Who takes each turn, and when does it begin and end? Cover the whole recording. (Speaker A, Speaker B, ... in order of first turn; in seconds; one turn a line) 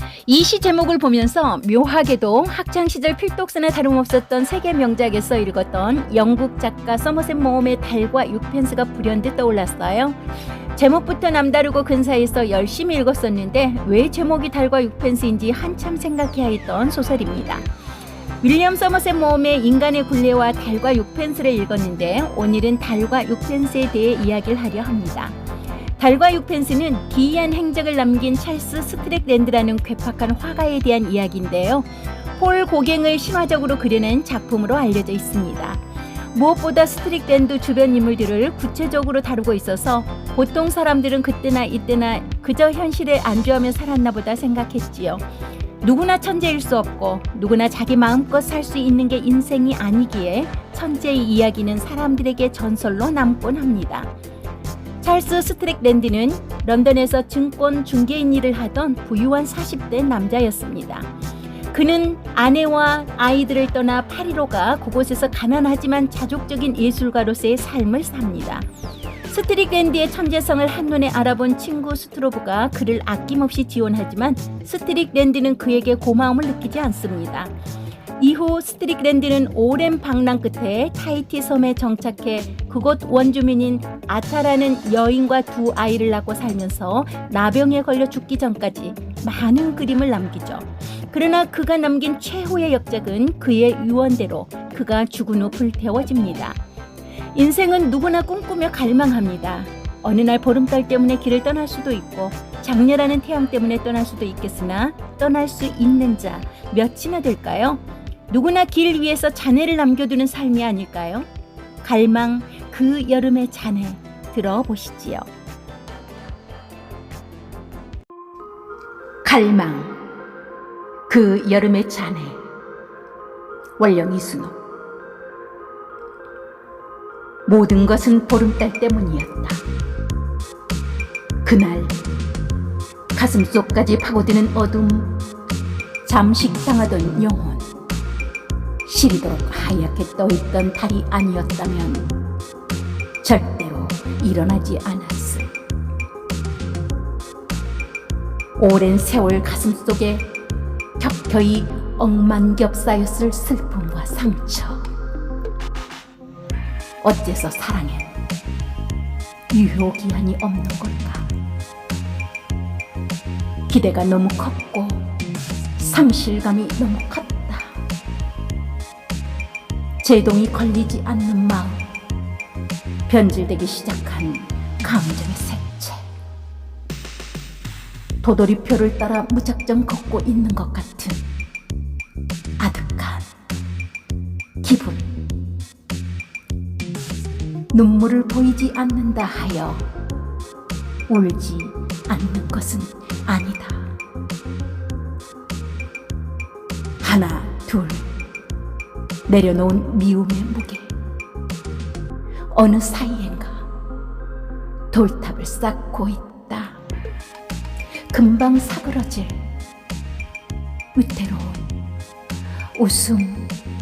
Speaker A: 0.3-10.2
Speaker A: 10.7-17.6
Speaker A: 18.4-25.4
Speaker A: 26.0-35.8
Speaker A: 36.3-45.2
Speaker A: 45.8-54.1
Speaker A: 55.0-61.1
Speaker A: 61.7-68.7
Speaker A: 69.3-77.5
Speaker A: 78.2-96.6
Speaker A: 97.3-111.3
Speaker A: 111.8-115.3
Speaker A: 119.2-120.0
Speaker A: 121.1-122.4
Speaker A: 123.8-124.5
Speaker A: 127.5-129.6
Speaker A: 131.4-132.0
Speaker A: 133.1-135.2
Speaker A: 136.0-137.7
Speaker A: 138.8-142.1
Speaker A: 143.2-145.5
Speaker A: 148.6-150.3
Speaker A: 151.0-154.9
Speaker A: 157.0-158.1
Speaker A: 159.5-161.3
Speaker A: 163.7-165.1
Speaker A: 165.8-167.7
Speaker A: 170.0-171.9
Speaker A: 173.1-176.1
Speaker A: 178.2-181.2
Speaker A: 182.6-183.3
Speaker A: 184.6-185.1
Speaker A: 187.7-189.8
Speaker A: 191.1-193.9
Speaker A: 197.0-198.1
Speaker A: 199.3-200.9
Speaker A: 202.5-203.7
Speaker A: 204.9-206.8
Speaker A: 208.1-209.4
Speaker A: 210.9-211.7
Speaker A: 212.8-213.6